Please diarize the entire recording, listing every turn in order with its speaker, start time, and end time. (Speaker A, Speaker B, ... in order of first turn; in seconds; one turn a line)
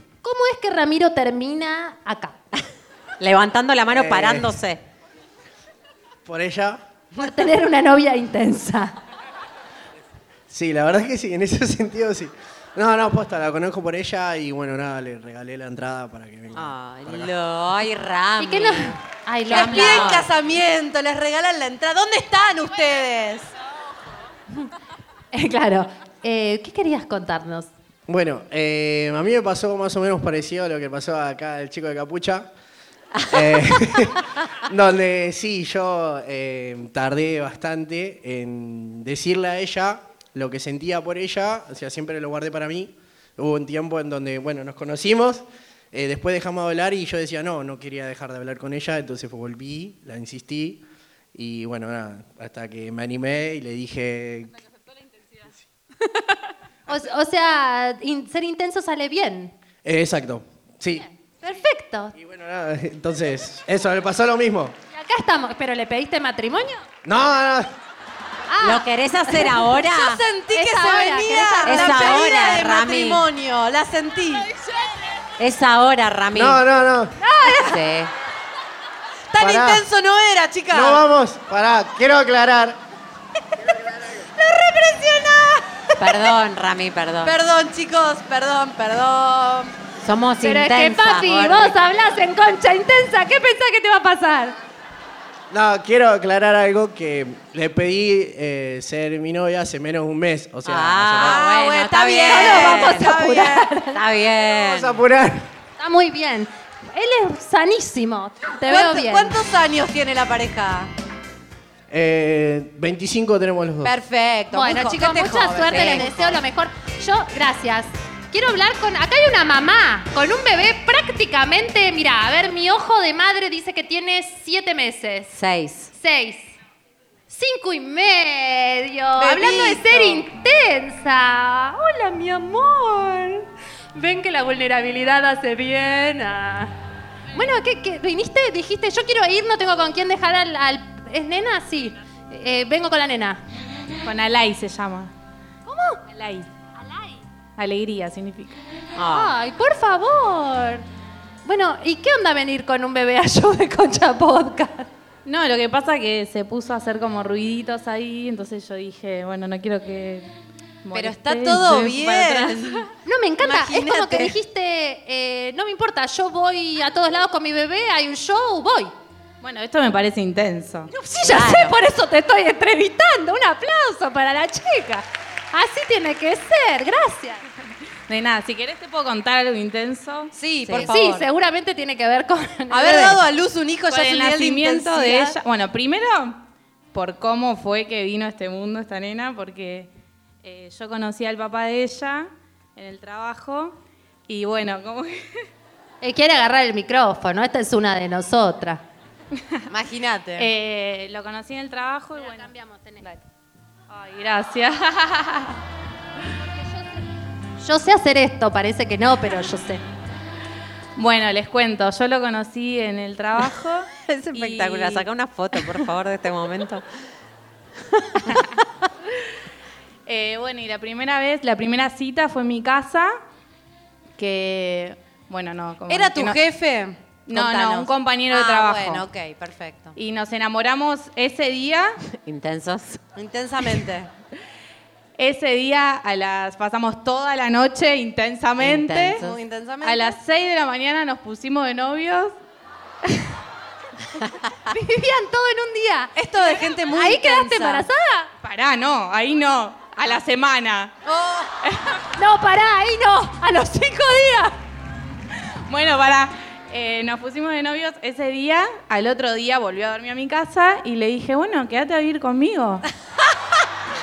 Speaker A: 0.2-2.4
Speaker B: 3.2-4.8
Speaker C: 3.9-4.5
Speaker C: 6.2-6.8
Speaker A: 7.2-8.9
Speaker C: 10.5-17.3
Speaker B: 16.5-19.0
Speaker A: 18.4-20.3
Speaker B: 19.5-20.3
Speaker D: 19.5-23.5
Speaker A: 25.3-27.7
Speaker C: 28.1-32.5
Speaker C: 33.3-50.8
Speaker C: 51.3-54.5
Speaker A: 56.9-59.5
Speaker C: 59.8-61.0
Speaker A: 61.4-62.1
Speaker C: 62.1-64.7
Speaker A: 64.9-66.8
Speaker C: 67.0-67.7
Speaker A: 68.5-69.6
Speaker B: 68.6-70.2
Speaker D: 69.8-74.5
Speaker A: 70.5-72.5
Speaker B: 71.6-73.2
Speaker B: 75.4-76.6
Speaker C: 76.3-77.1
Speaker B: 77.4-78.1
Speaker A: 77.4-77.7
Speaker D: 79.3-81.0
Speaker C: 79.4-79.8
Speaker C: 80.7-82.8
Speaker D: 84.4-85.6
Speaker B: 86.0-87.3
Speaker D: 87.2-89.7
Speaker B: 90.0-91.8
Speaker A: 90.4-94.5
Speaker C: 95.5-101.4
Speaker B: 100.6-103.2
Speaker D: 101.2-103.7
Speaker A: 102.3-104.1
Speaker B: 103.9-105.0
Speaker C: 104.4-105.5
Speaker A: 105.8-109.4
Speaker D: 108.7-110.9
Speaker C: 111.9-113.9
Speaker D: 113.8-116.3
Speaker A: 114.5-125.3
Speaker B: 115.7-116.1
Speaker B: 125.3-125.9
Speaker A: 125.9-126.5
Speaker A: 127.3-136.7
Speaker D: 129.2-130.2
Speaker A: 137.3-143.4
Speaker E: 144.0-145.1
Speaker A: 145.7-146.0
Speaker E: 146.1-146.5
Speaker E: 147.6-148.6
Speaker B: 148.9-149.3
Speaker A: 149.1-150.8
Speaker A: 151.4-154.9
Speaker E: 155.2-160.3
Speaker E: 160.8-162.5
Speaker D: 160.9-162.8
Speaker A: 163.0-168.9
Speaker D: 163.4-164.3
Speaker E: 169.4-170.9
Speaker A: 170.9-177.4
Speaker B: 171.3-171.7
Speaker E: 178.1-180.3
Speaker D: 180.3-181.2
Speaker B: 180.6-180.9
Speaker A: 180.7-183.2
Speaker D: 182.7-185.4
Speaker E: 183.9-189.9
Speaker E: 190.4-195.2
Speaker A: 196.0-198.8
Speaker D: 199.7-200.5
Speaker E: 200.4-202.5
Speaker A: 202.1-203.1
Speaker E: 203.9-205.6
Speaker A: 207.6-209.8
Speaker E: 210.9-214.8
Speaker B: 214.3-216.8
Speaker E: 220.1-223.1
Speaker E: 224.2-226.4
Speaker D: 225.9-229.9
Speaker E: 227.3-229.1
Speaker E: 229.9-232.0
Speaker B: 232.1-233.0
Speaker D: 233.2-234.1
Speaker E: 235.2-239.2
Speaker B: 238.6-239.4
Speaker D: 239.2-240.2
Speaker E: 239.8-242.3
Speaker A: 244.7-248.3
Speaker D: 246.1-247.9
Speaker E: 248.4-250.9
Speaker D: 251.0-251.5
Speaker E: 251.6-252.0
Speaker A: 252.2-254.6
Speaker E: 255.7-262.8